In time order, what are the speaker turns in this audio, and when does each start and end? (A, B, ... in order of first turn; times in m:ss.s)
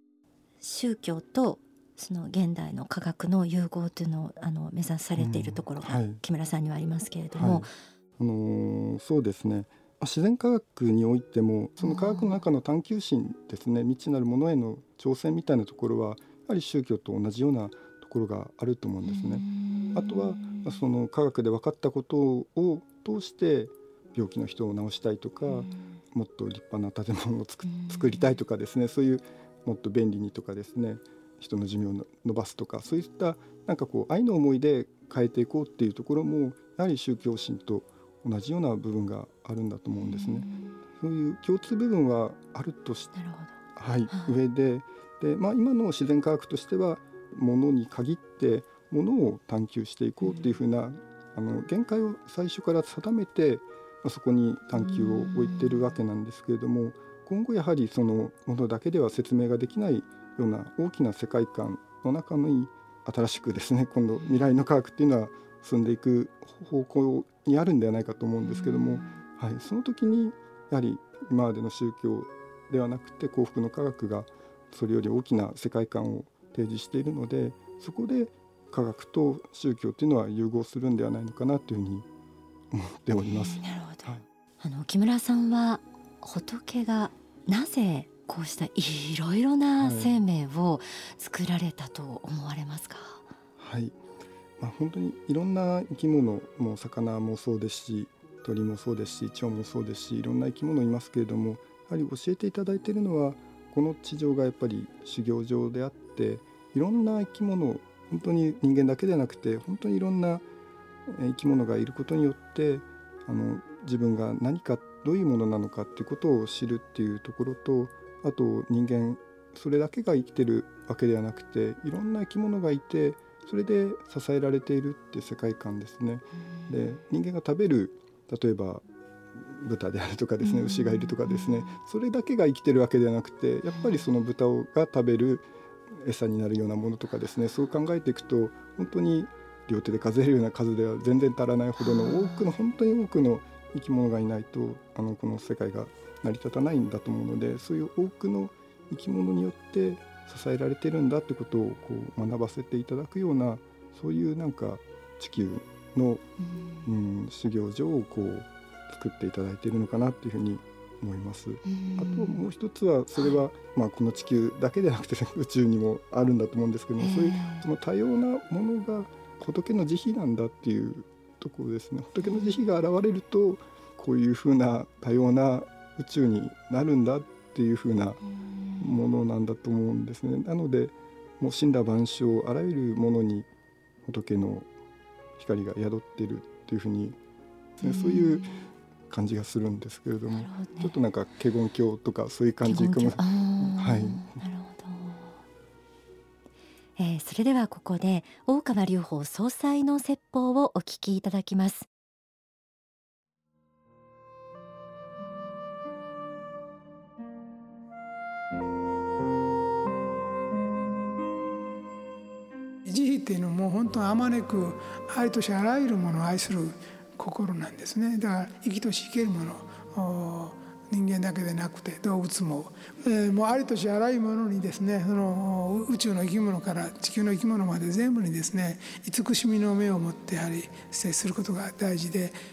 0:00.6-0:07.7 A
0:05.2-0:06.2 B
0:07.3-0:43.1 B
0:11.8-0:12.3 A
0:19.0-0:20.8 A
0:25.5-0:25.8 A
0:27.6-0:28.3 A
0:40.0-0:40.8 A
0:43.1-0:44.3 A
0:43.8-1:22.1 B
0:50.2-0:50.5 A
0:54.8-0:55.9 A
1:08.4-1:09.1 A
1:22.7-1:24.2 B
1:23.2-1:24.1 A
1:24.6-1:33.2 A
1:29.8-1:30.2 B
1:33.6-1:34.0 B
1:34.6-1:50.4 B
1:51.1-2:36.2 B
2:10.4-2:11.4 A
2:21.8-2:22.5 A
2:36.5-2:36.8 A
2:36.8-2:58.2 B
2:41.6-2:42.4 A
2:47.0-2:47.6 A
2:52.2-2:52.5 A
2:58.8-3:03.5 B
3:04.0-3:04.7 B
3:05.4-3:07.2 B
3:07.8-3:08.5 B
3:07.8-3:08.7 A
3:09.1-3:14.3 B
3:10.3-3:10.9 A
3:12.6-3:15.3 A
3:17.0-3:21.9 A
3:32.8-3:52.3 C